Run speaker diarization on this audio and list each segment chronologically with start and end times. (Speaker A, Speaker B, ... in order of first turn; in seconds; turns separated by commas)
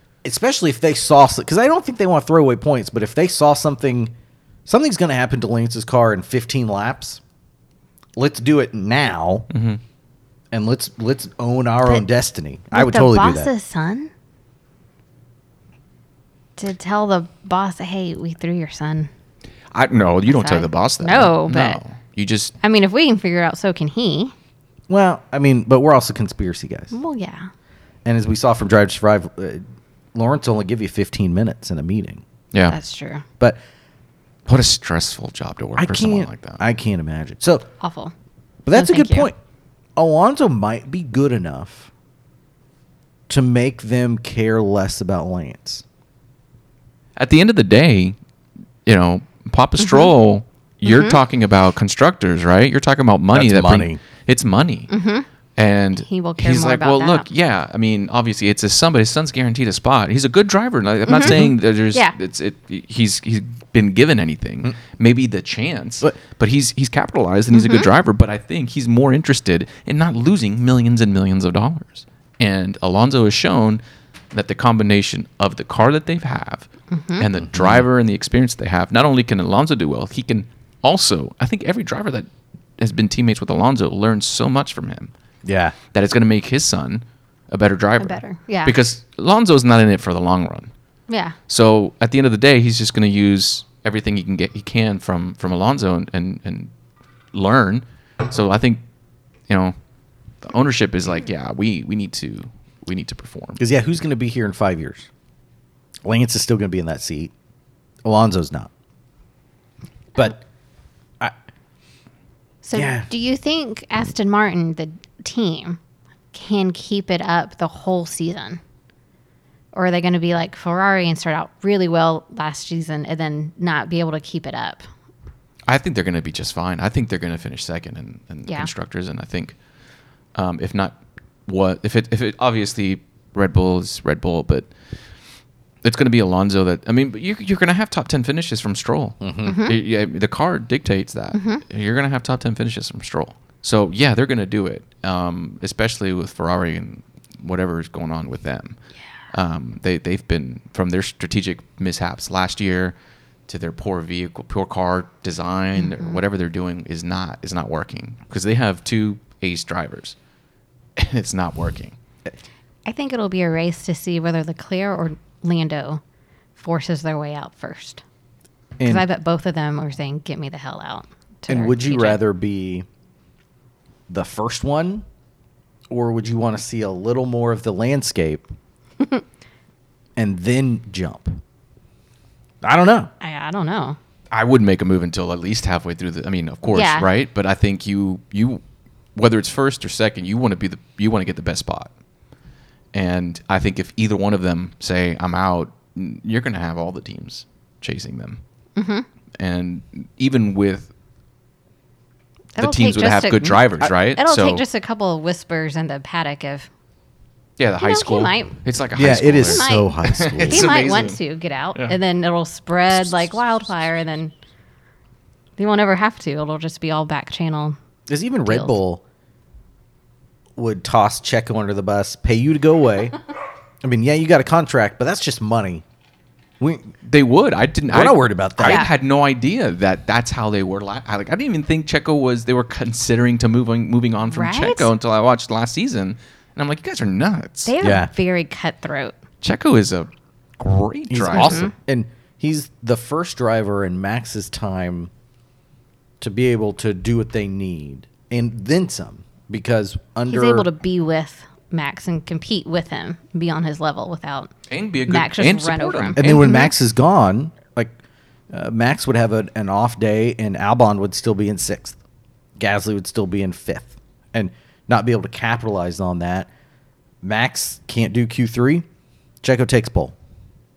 Speaker A: 0.2-4.1, Speaker A: 4.7-7.2, Speaker A: 8.2-9.5, Speaker B: 9.5-9.8, Speaker A: 10.5-13.5, Speaker C: 12.7-14.1, Speaker C: 16.6-19.1, Speaker B: 19.7-22.5, Speaker C: 20.3-21.8, Speaker C: 22.6-24.3, Speaker A: 24.9-26.9, Speaker C: 26.9-27.5, Speaker A: 28.1-32.2, Speaker C: 32.7-33.2, Speaker B: 34.5-36.6, Speaker A: 35.8-37.6, Speaker C: 37.8-38.1, Speaker A: 38.6-39.4, Speaker C: 38.7-39.3, Speaker A: 40.0-41.9, Speaker A: 43.3-45.8, Speaker B: 47.2-48.2, Speaker B: 48.9-54.9, Speaker C: 49.8-50.1, Speaker C: 50.9-51.2, Speaker A: 53.3-54.0, Speaker C: 54.9-55.3, Speaker B: 55.6-73.8, Speaker C: 56.0-57.3, Speaker C: 61.1-62.2, Speaker C: 67.5-67.9, Speaker B: 74.3-76.7, Speaker C: 76.9-77.3, Speaker B: 77.2-82.3, Speaker A: 77.4-77.8, Speaker B: 82.8-85.1, Speaker A: 85.5-85.8, Speaker B: 85.9-90.7, Speaker C: 88.0-88.8, Speaker C: 91.1-91.4, Speaker B: 91.5-96.7, Speaker B: 97.3-98.8, Speaker B: 99.5-99.8, Speaker B: 100.4-103.6, Speaker A: 103.6-105.1, Speaker A: 106.0-107.3, Speaker A: 108.0-108.7, Speaker A: 110.2-110.4, Speaker C: 112.6-115.8, Speaker A: 112.7-113.1, Speaker C: 116.3-118.6, Speaker C: 119.7-124.9, Speaker B: 125.7-129.6, Speaker B: 130.3-134.7, Speaker B: 135.8-148.8, Speaker A: 139.2-139.6, Speaker C: 139.4-139.8, Speaker C: 141.3-141.6, Speaker B: 149.3-152.9, Speaker B: 153.5-160.2, Speaker C: 155.8-156.2, Speaker B: 161.0-162.0, Speaker C: 162.9-166.0, Speaker C: 166.6-168.0, Speaker A: 168.8-169.1, Speaker C: 168.8-172.2, Speaker A: 171.5-172.9, Speaker A: 174.1-175.1, Speaker A: 175.9-178.5, Speaker A: 180.2-181.4, Speaker A: 182.6-183.1, Speaker C: 183.2-184.0, Speaker B: 184.3-188.6, Speaker C: 186.7-187.1, Speaker B: 189.2-191.9, Speaker B: 192.9-198.4, Speaker C: 198.8-199.1, Speaker B: 199.4-200.9, Speaker C: 202.6-206.7, Speaker B: 202.6-204.6, Speaker A: 203.4-203.9, Speaker B: 207.6-211.2, Speaker C: 207.8-208.6, Speaker A: 208.9-211.0, Speaker C: 209.4-209.9, Speaker C: 210.5-214.3, Speaker C: 215.6-217.8, Speaker A: 218.1-219.0, Speaker C: 218.5-218.8, Speaker A: 220.6-223.2, Speaker A: 223.8-225.8, Speaker A: 226.6-226.9, Speaker B: 227.1-237.7, Speaker A: 227.9-228.9, Speaker C: 228.6-228.9, Speaker C: 234.3-234.9, Speaker C: 237.7-239.2, Speaker A: 237.8-238.1, Speaker B: 239.4-241.7, Speaker A: 241.1-245.1, Speaker C: 241.3-241.7, Speaker A: 246.2-250.7, Speaker C: 250.3-254.5, Speaker B: 254.7-256.3, Speaker C: 255.1-256.7, Speaker A: 256.2-257.9, Speaker A: 258.5-262.0, Speaker A: 262.6-266.5, Speaker A: 267.2-268.9, Speaker A: 269.4-270.1